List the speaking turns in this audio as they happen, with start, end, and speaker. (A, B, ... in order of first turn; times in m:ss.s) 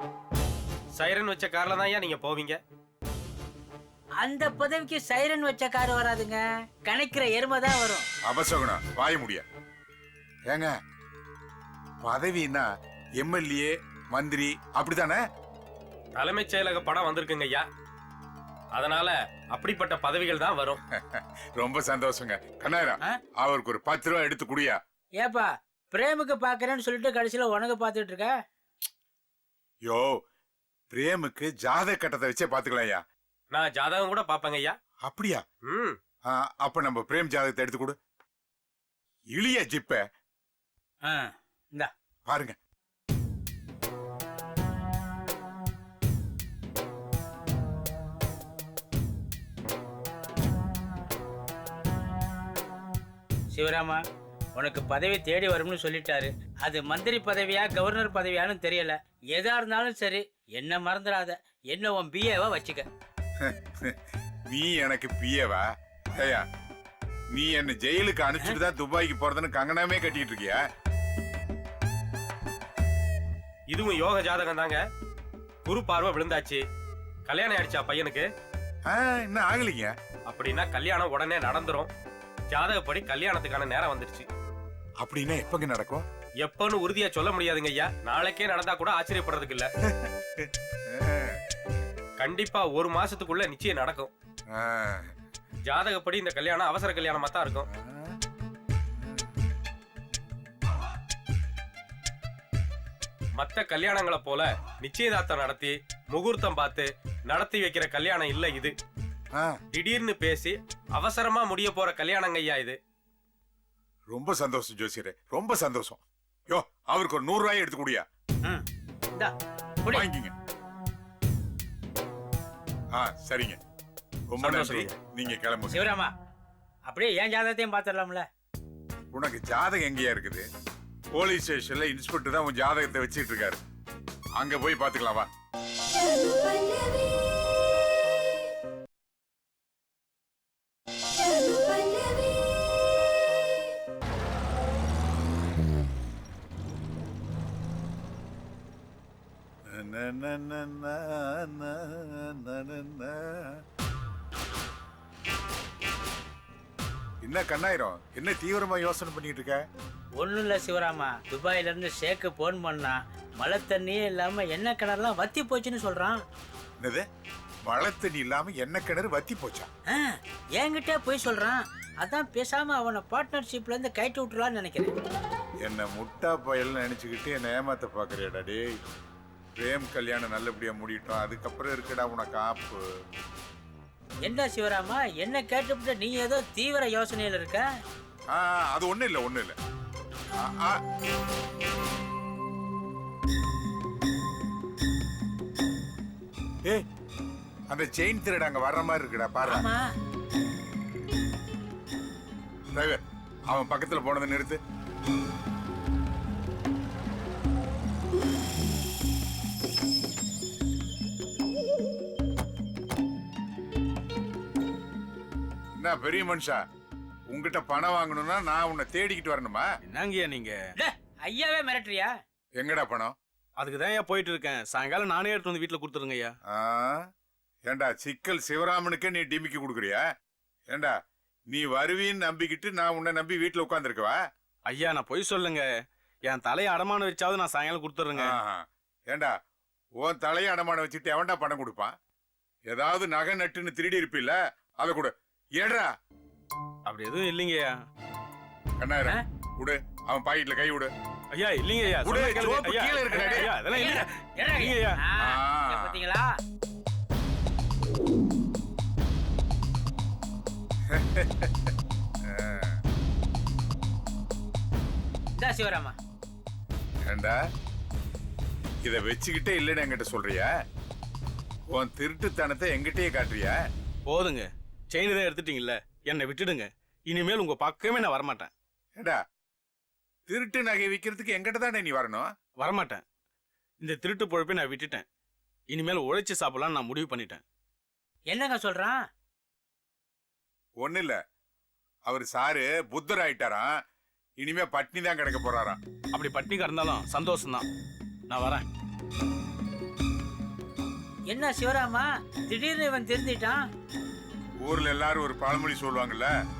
0:01.0-0:02.6 A
0:04.2-0:08.1 B
0:08.3-0:09.4 C
0:10.5-0:10.7 C
0:12.0-0:12.6 C
0:13.2-0:15.2 C
0:16.2-0:17.6 A
0:18.7-0:20.8 A
0:20.9-0:24.8 C
0:25.2-0:28.3 B
0:30.9-0:33.0 C
0:33.5-0:34.7 A
0:35.0-0:35.4 C
0:35.7-0:35.9 A
0:36.3-0:38.0 C
0:39.3-0:40.0 C
0:41.0-0:41.9 B
0:42.3-0:42.6 C
0:53.5-0:54.0 B
0:54.5-1:02.9 B
1:03.4-1:03.9 C
1:04.5-1:05.6 C
1:06.2-1:06.4 C
1:07.3-1:10.6 C
1:13.7-1:14.8 A
1:15.6-1:16.6 A
1:17.3-1:18.2 A
1:18.9-1:19.9 C
1:20.3-1:21.9 A
1:22.5-1:24.2 A
1:25.0-1:26.0 C
1:26.4-1:29.7 A
1:29.8-1:31.4 C
1:32.2-1:34.1 A
1:34.5-1:35.1 C
1:35.7-1:37.6 A
1:37.7-1:38.2 C
1:43.4-1:48.7 A
1:49.7-1:52.8 A
1:54.1-1:58.0 C
1:58.4-2:00.1 B
1:59.9-2:00.3 C
2:03.0-2:03.6 C
2:04.3-2:05.8 C
2:04.4-2:04.9 B
2:05.7-2:06.1 B
2:06.9-2:08.2 B
2:09.1-2:10.5 C
2:11.1-2:13.6 C
2:14.4-2:15.3 C
2:29.7-2:33.6 C
2:37.2-2:39.6 C
2:40.2-2:46.2 B
2:46.8-2:47.0 C
2:47.7-2:49.7 C
2:49.9-2:54.9 B
2:55.6-2:58.8 C
2:59.6-3:02.8 C
3:04.2-3:07.6 B
3:08.3-3:09.6 C
3:10.4-3:10.8 C
3:17.7-3:19.7 C
3:19.4-3:19.8 B
3:22.7-3:24.6 C
3:35.8-3:36.6 C
3:37.3-3:39.7 C
3:39.9-3:40.6 D
3:40.8-3:42.1 B
3:42.6-3:43.1 C
3:43.6-3:46.3 D
3:46.5-3:47.0 C
3:47.7-3:50.0 C
3:51.5-3:54.2 C
3:54.6-3:55.7 D
3:56.2-3:58.3 D
3:58.1-3:59.3 C
4:00.0-4:01.9 C
4:02.7-4:05.9 C
4:06.8-4:07.8 D
4:08.8-4:10.9 C
4:11.3-4:15.0 D
4:12.0-4:13.5 C
4:13.1-4:16.4 B
4:15.2-4:16.0 C
4:20.9-4:21.7 C
4:22.2-4:22.8 C
4:25.4-4:26.0 B
4:27.0-4:27.3 C
4:28.8-4:30.5 C
4:31.7-4:33.6 C
4:34.1-4:38.5 D
4:40.3-4:42.3 C
4:42.6-4:43.0 D
4:43.8-4:45.0 D
4:45.7-4:47.4 D
4:48.3-4:49.0 B
4:50.8-4:51.2 C
4:52.0-4:53.7 C
4:54.4-4:55.8 C
4:56.1-4:57.6 D
4:58.3-4:58.6 D
5:01.3-5:03.6 B
5:04.6-5:06.3 C